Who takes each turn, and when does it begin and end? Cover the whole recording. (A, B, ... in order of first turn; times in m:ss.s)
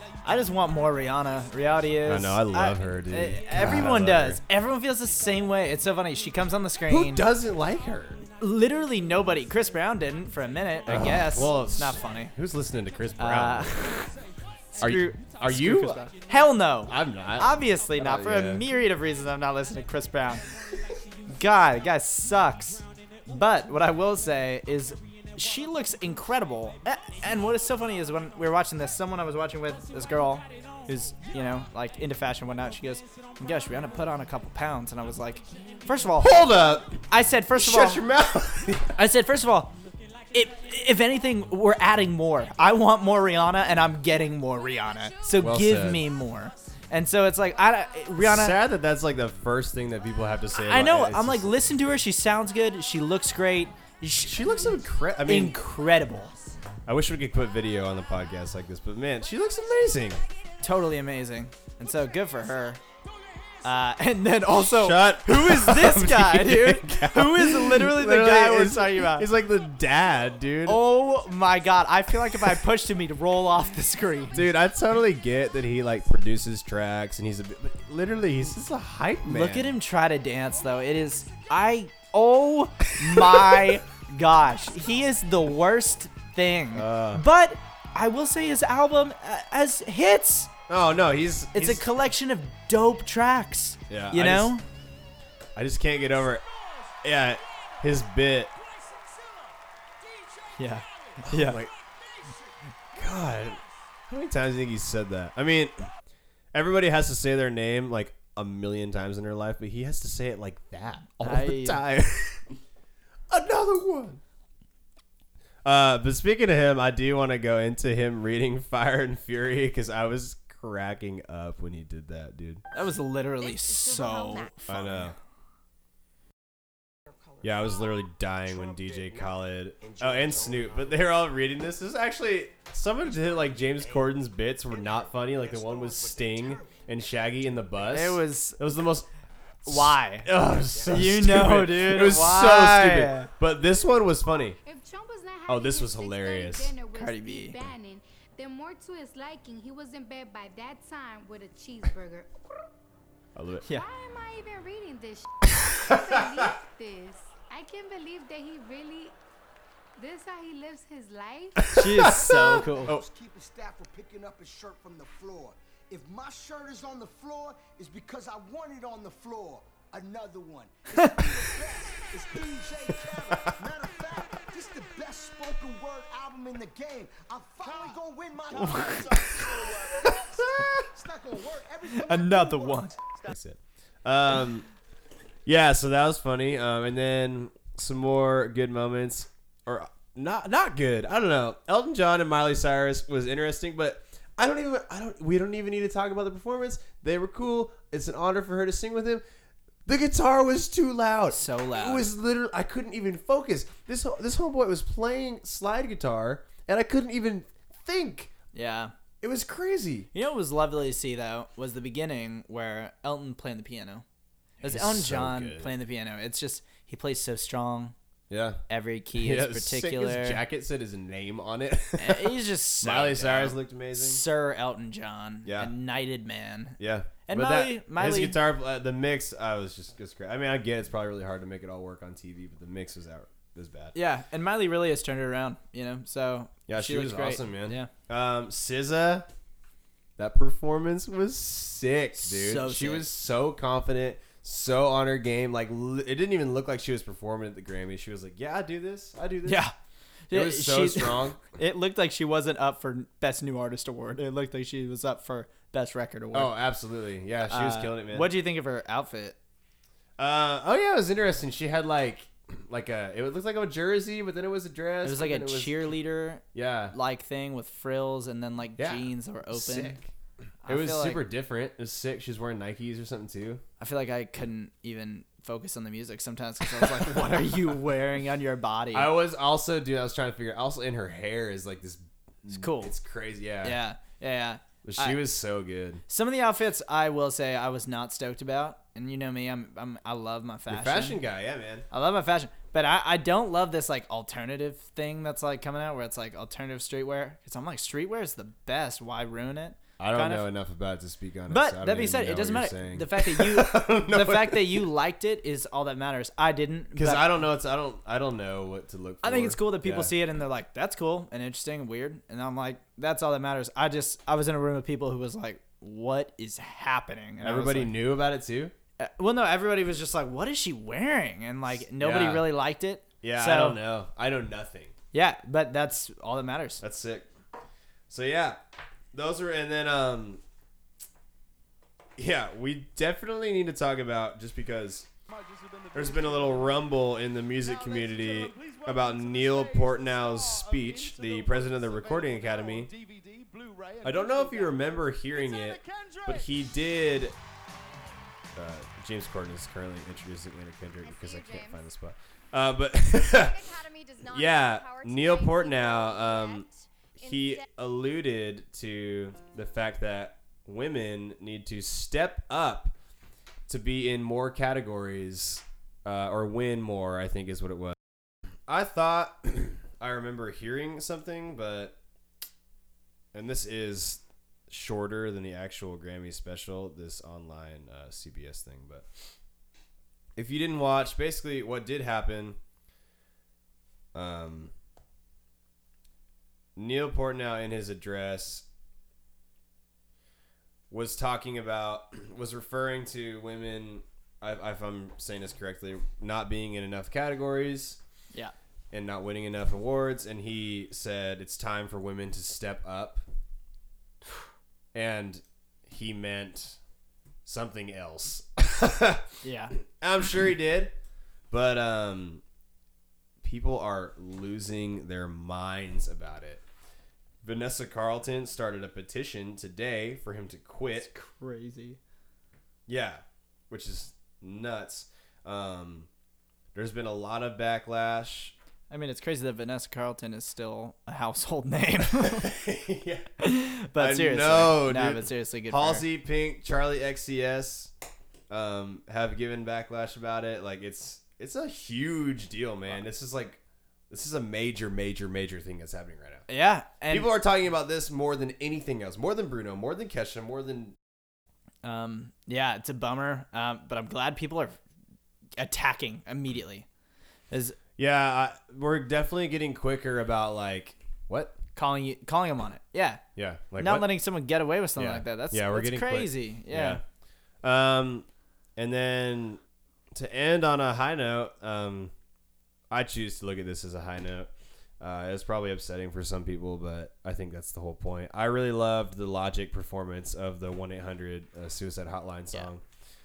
0:00.2-0:07.3 A
0:02.0-0:04.4 B
0:06.9-0:08.2 B
0:08.4-0:12.3 A
0:10.9-0:14.2 B
0:13.2-0:13.8 A
0:14.8-0:20.4 A
0:14.8-0:16.1 B
0:16.8-0:18.7 B
0:21.3-0:36.4 A
0:36.2-0:39.0 B
0:37.1-0:38.0 A
0:39.0-0:39.8 A
0:40.3-0:48.6 A
0:45.4-0:46.1 B
0:48.2-0:51.5 B
0:50.6-0:54.6 A
0:54.2-0:55.6 B
0:55.3-0:56.3 A
0:56.9-1:00.2 B
1:00.6-1:02.8 A
1:03.6-1:09.3 A
1:04.5-1:10.8 B
1:10.6-1:14.5 A
1:14.3-1:19.8 B
1:19.2-1:30.5 A
1:23.0-1:23.7 B
1:26.7-1:27.2 B
1:30.7-1:31.8 B
1:31.5-1:34.6 A
1:33.9-1:34.6 B
1:35.6-1:36.4 B
1:37.0-1:38.5 B
1:40.6-1:41.6 A
1:41.2-1:41.7 B
1:43.0-1:45.9 B
1:46.5-1:52.6 B
1:51.2-1:51.8 A
1:53.3-1:54.2 B
1:55.6-2:02.6 B
2:02.7-2:05.0 A
2:04.7-2:05.2 B
2:07.4-2:19.1 B
2:17.9-2:18.6 A
2:19.6-2:24.6 B
2:19.7-2:20.3 A
2:20.9-2:23.3 A
2:24.6-2:32.3 C
2:25.5-2:26.8 B
2:26.9-2:27.6 A
2:33.4-2:33.6 B
2:33.7-2:39.2 C
2:35.6-2:36.5 B
2:40.0-2:41.8 C
2:41.6-2:43.0 B
2:41.7-2:42.9 A
2:42.2-3:03.0 D
2:53.3-2:53.6 B
2:58.6-2:59.2 A
3:00.1-3:00.9 B
3:01.9-3:03.0 A
3:03.2-3:04.7 B
3:05.5-3:19.2 B
3:19.9-3:28.3 B
3:21.3-3:22.1 A
3:28.5-3:28.9 A
3:29.2-3:30.1 B
3:30.1-3:34.0 A
3:34.6-3:38.0 A
3:34.6-3:35.7 B
3:38.3-3:38.6 B
3:38.7-3:40.4 A
3:39.2-3:44.2 B
3:42.0-3:48.4 A
3:45.4-3:45.7 B
3:46.8-3:54.0 B
3:53.9-3:57.9 A
3:56.7-3:59.3 B
4:00.2-4:09.6 B
4:02.2-4:03.1 A
4:09.4-4:09.8 A
4:10.3-4:16.6 A
4:10.3-4:11.4 B
4:16.3-4:18.3 B
4:17.5-4:19.4 A
4:20.2-4:25.7 B
4:25.0-4:30.0 A
4:26.5-4:26.9 B
4:28.8-4:30.1 B
4:30.6-4:31.2 A
4:30.7-4:33.6 B
4:33.8-4:39.1 A
4:38.9-4:43.8 B
4:42.5-4:42.9 A
4:43.6-4:45.2 A
4:44.8-4:46.0 B
4:46.1-4:51.2 A
4:50.7-4:51.9 B
4:51.9-5:00.5 A
5:00.0-5:04.9 B
5:01.5-5:07.3 A
5:07.0-5:10.1 B
5:09.2-5:18.0 A
5:17.4-5:18.7 B
5:19.0-5:23.8 A
5:21.8-5:22.5 B
5:23.2-5:24.9 B
5:25.1-5:26.8 A
5:26.8-5:27.3 B
5:28.1-5:28.6 B
5:29.1-5:30.4 B
5:32.2-5:35.1 B
5:35.9-5:42.9 B
5:44.0-5:47.4 B
5:48.6-6:03.0 B
6:03.7-6:08.0 B
6:08.7-6:12.0 B
6:13.3-6:19.1 B
6:20.4-6:22.6 B
6:24.1-6:24.7 B
6:26.8-6:28.6 B
6:30.9-6:38.0 B
6:38.9-6:43.2 B
6:44.9-6:46.8 B
6:47.4-6:50.9 B
6:49.4-6:49.8 A
6:51.5-6:52.4 B
6:53.4-6:56.6 B
6:57.4-7:01.1 B
7:01.0-7:02.0 A
7:02.9-7:06.1 B
7:06.8-7:08.6 B
7:08.9-7:12.6 A
7:12.1-7:13.3 B
7:13.4-7:16.0 A
7:13.9-7:17.9 B
7:18.5-7:26.5 B
7:26.5-7:27.3 A
7:27.1-7:31.0 B
7:31.8-7:34.8 A
7:35.6-7:36.9 A
7:37.5-7:37.8 A
7:38.0-7:41.6 B
7:41.8-7:43.2 A
7:43.4-7:44.1 B
7:43.8-7:47.0 A
7:45.0-7:47.0 B
7:47.6-7:49.6 B
7:50.1-7:52.1 B
7:52.9-8:02.8 B